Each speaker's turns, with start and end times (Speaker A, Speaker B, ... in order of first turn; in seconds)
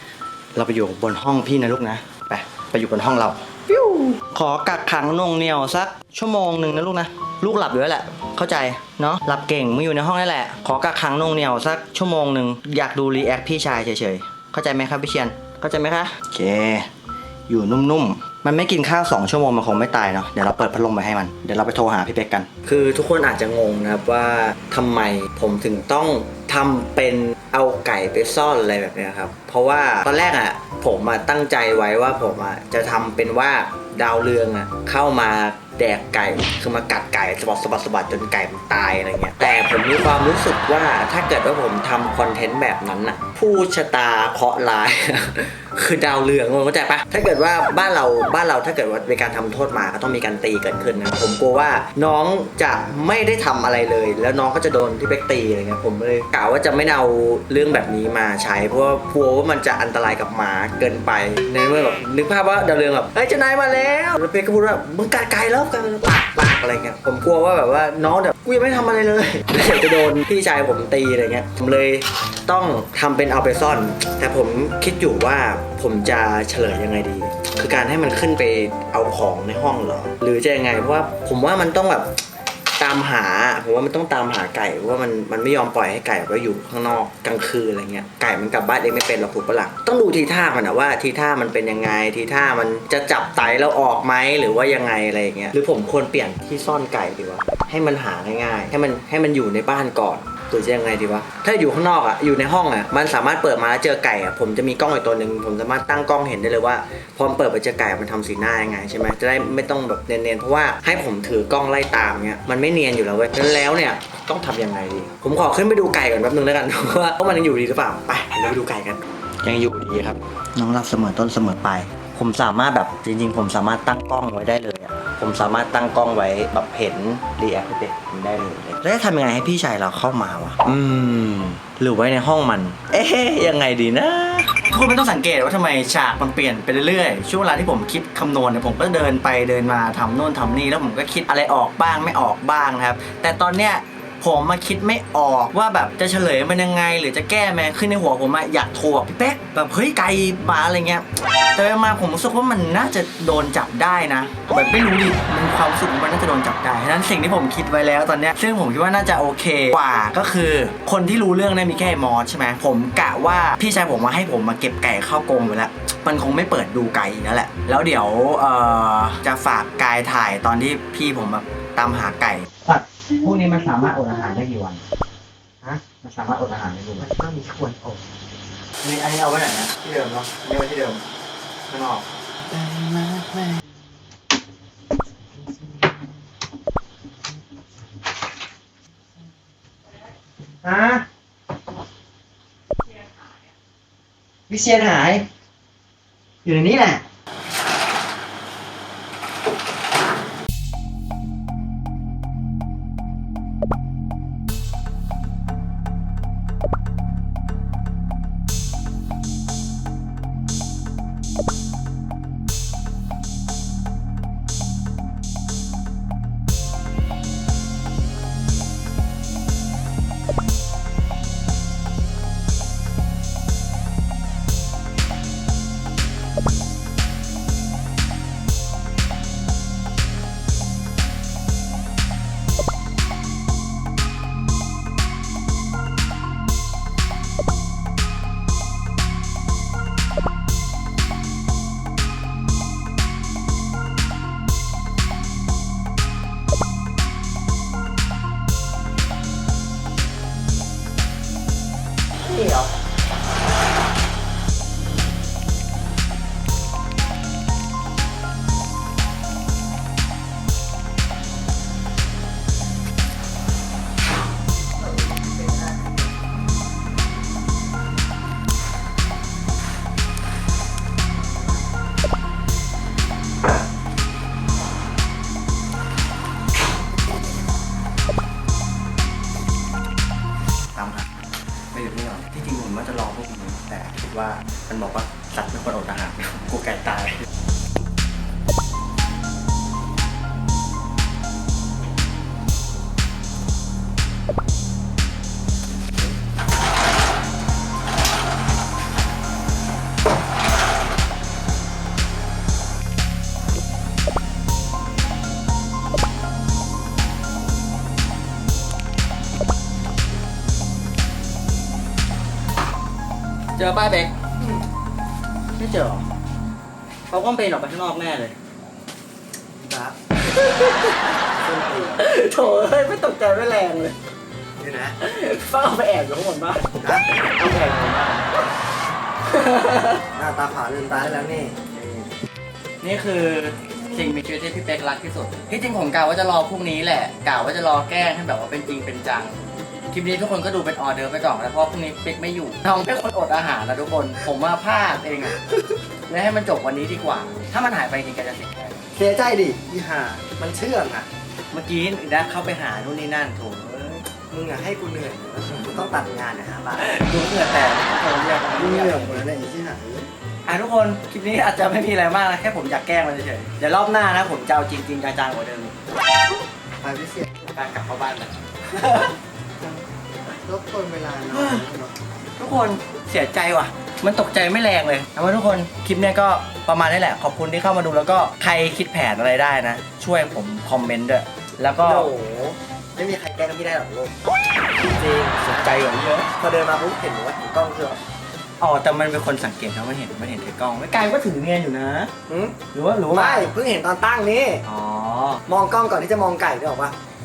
Speaker A: 0.5-16.9, 17.5-82.1, 82.8-174.8, 175.8-177.1, 178.8-181.0, 181.7-182.1, 252.3-252.6, 280.7-281.1, 281.7-287.2, 313.6-314.2, 315.6-316.1, 317.1-318.3, 320.3-321.0, 321.9-323.9, 325.0-328.3, 329.3-330.0, 331.7-332.1, 332.8-345.5, 346.1-348.8, 351.5-354.1, 356.8-359.2, 360.4-365.7, 367.5-369.1, 371.3-371.6, 372.4-382.1, 384.8-386.3, 388.6-392.1, 392.7-393.5, 394.6-395.4
Speaker B: 177.0-178.0, 182.4-183.6, 190.6-191.1, 194.5-195.3, 196.4-197.0, 319.6-320.0, 321.4-322.0, 324.6-324.9, 326.8-327.1, 330.1-331.6, 348.9-351.1, 354.3-356.9, 358.5-360.1, 366.8-367.5, 370.4-371.9, 381.8-384.1, 386.4-388.0, 392.3-392.6, 393.1-394.6, 395.5-396.9